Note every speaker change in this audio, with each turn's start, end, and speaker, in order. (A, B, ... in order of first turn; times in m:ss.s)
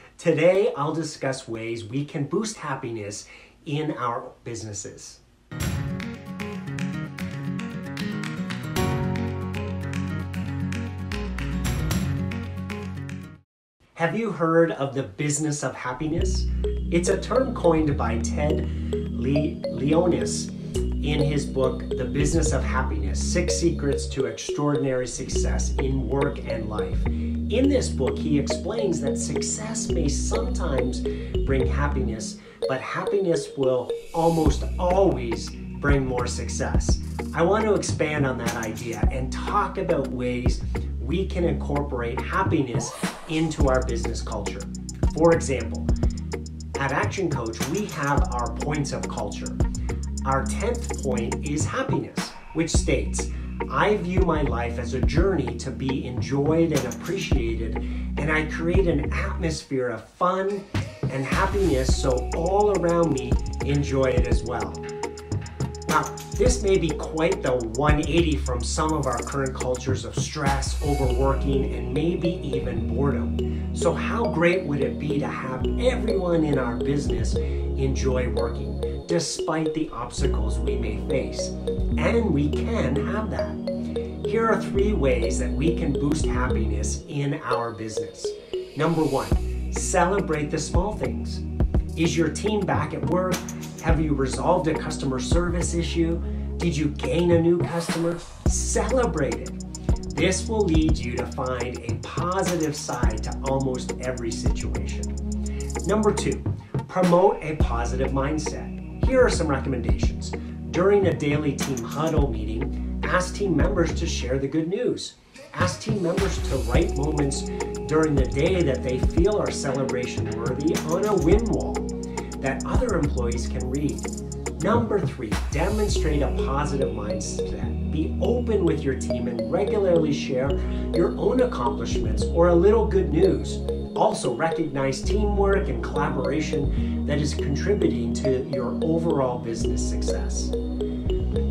0:00.2-0:05.2 A
0:13.9-0:45.9 A
0:46.7-0:49.6 A
0:50.2-1:04.8 A
1:05.8-1:23.6 A
1:24.2-1:31.4 A
1:31.9-1:45.2 A
1:45.8-2:20.5 A